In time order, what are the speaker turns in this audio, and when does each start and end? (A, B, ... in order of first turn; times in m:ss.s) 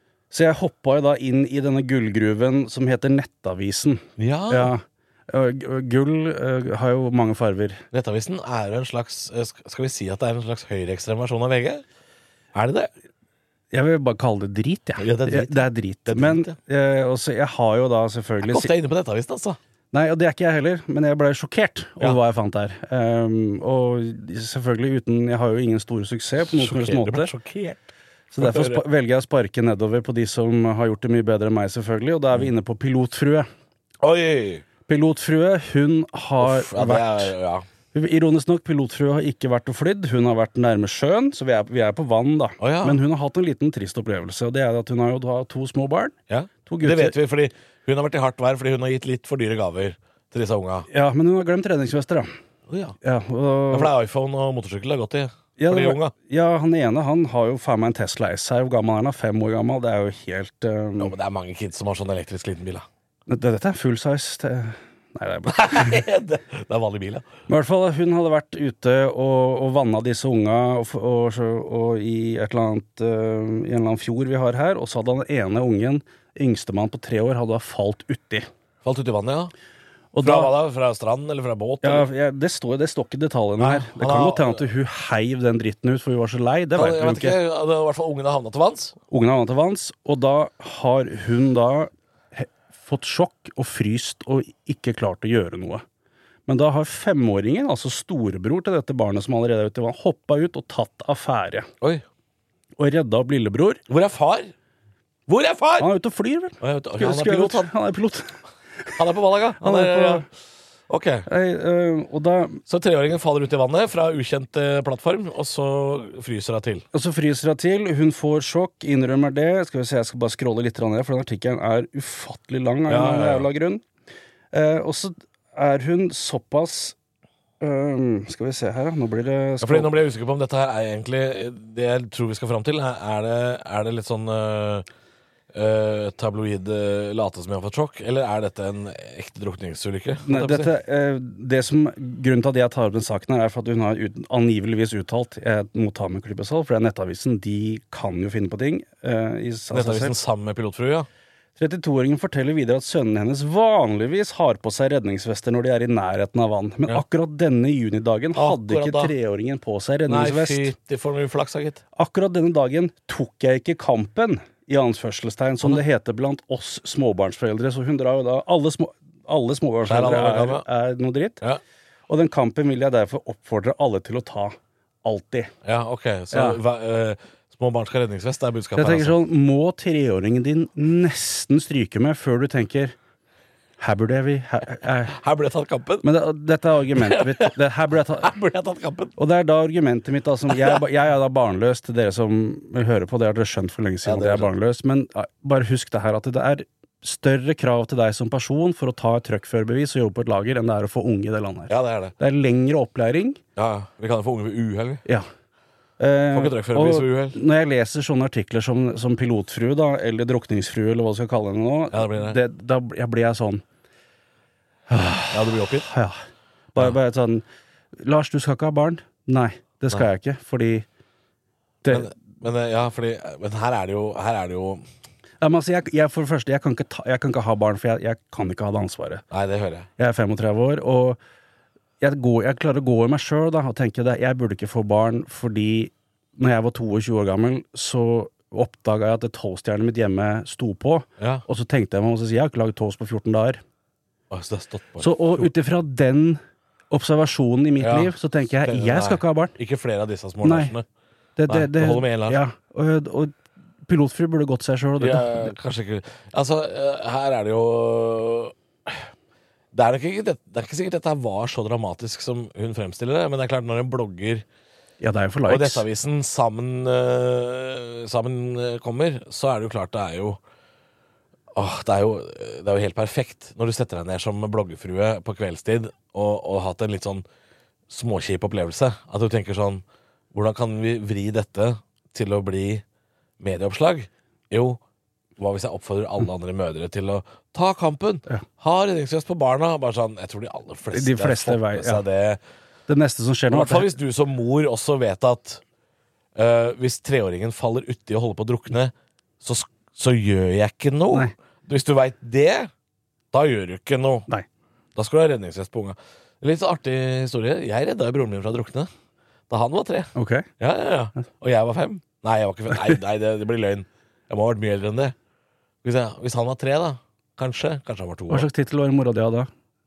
0:00.3-0:07.8 A
0:04.2-0:04.7 B
0:07.9-0:11.8 B
0:12.5-0:12.9 B
0:13.7-0:18.7 A
0:15.0-0:16.5 B
0:18.4-0:19.6 B
0:19.9-0:27.3 A
0:26.5-0:28.8 B
0:28.3-0:33.5 A
0:34.0-0:34.6 B
0:34.9-0:37.3 A
0:36.4-0:37.6 B
0:37.9-0:46.2 A
0:42.6-0:43.0 B
0:46.3-0:50.9 B
0:46.7-0:47.2 A
0:50.9-0:52.3 A
0:52.7-0:53.0 B
0:53.0-0:53.9 A
0:53.7-0:56.1 B
0:55.6-1:01.1 A
1:01.0-1:02.9 B
1:03.3-1:06.0 A
1:05.5-1:07.3 B
1:07.5-1:18.5 A
1:18.8-1:19.5 B
1:20.1-1:20.5 A
1:20.2-1:22.1 B
1:21.8-1:27.4 A
1:23.6-1:24.7 B
1:26.8-1:29.0 B
1:29.1-1:35.8 A
1:36.5-1:41.7 A
1:42.8-1:43.8 A
1:43.9-1:44.5 B
1:45.3-1:45.9 B
1:45.8-1:49.0 A
1:46.6-1:47.7 B
1:49.0-1:50.3 B
1:49.6-1:50.2 A
1:50.9-1:51.3 B
1:51.3-1:52.6 A
1:52.7-1:56.9 B
1:56.9-2:03.8 A
2:02.9-2:03.5 B
2:04.5-2:07.0 A
2:07.6-2:09.9 A
2:09.6-2:14.9 B
2:15.5-2:20.7 B
2:20.2-2:30.2 A
2:29.7-2:31.1 B
2:31.6-2:40.7 A
2:38.3-2:39.1 B
2:40.1-2:41.8 B
2:42.0-2:51.4 A
2:49.9-2:50.6 B
2:52.1-2:55.5 A
2:55.6-2:59.2 B
2:56.3-2:56.6 A
2:58.8-3:03.0 A
3:03.8-3:05.2 A
3:05.1-3:06.1 B
3:06.0-3:08.3 A
3:07.0-3:07.5 B
3:08.2-3:09.2 B
3:09.2-3:23.4 A
3:10.5-3:10.8 B
3:14.0-3:14.5 B
3:21.7-3:22.2 B
3:23.6-3:25.0 B
3:26.0-3:33.6 A
3:26.3-3:27.4 B
3:31.9-3:32.4 B
3:34.9-3:36.2 A
3:35.3-3:35.9 B
3:36.7-3:37.4 A
3:38.0-3:40.9 A
3:41.8-3:42.1 A
3:41.9-3:44.8 B
3:45.4-3:49.2 A
3:49.3-3:49.9 B
3:50.0-3:51.2 A
3:52.0-4:03.6 A
4:01.2-4:01.4 B
4:04.3-4:05.5 B
4:05.0-4:09.6 A
4:07.8-4:10.9 B
4:10.4-4:10.8 A
4:11.4-4:13.3 A
4:11.5-4:12.4 B
4:13.9-4:15.5 A
4:15.0-4:19.0 B
4:19.7-4:24.4 B
4:25.0-4:25.8 A
4:25.5-4:30.4 B
4:31.5-4:37.2 B
4:37.9-4:42.8 B
4:43.4-4:44.8 B
4:45.4-4:52.4 B
4:50.9-4:52.0 A
4:52.9-4:53.9 A
4:53.5-4:55.6 B
4:56.4-5:02.7 B
5:03.3-5:04.3 B
5:05.0-5:08.9 B
5:09.5-5:15.2 B
5:10.2-5:10.5 A
5:15.8-5:18.5 B
5:18.3-5:19.5 A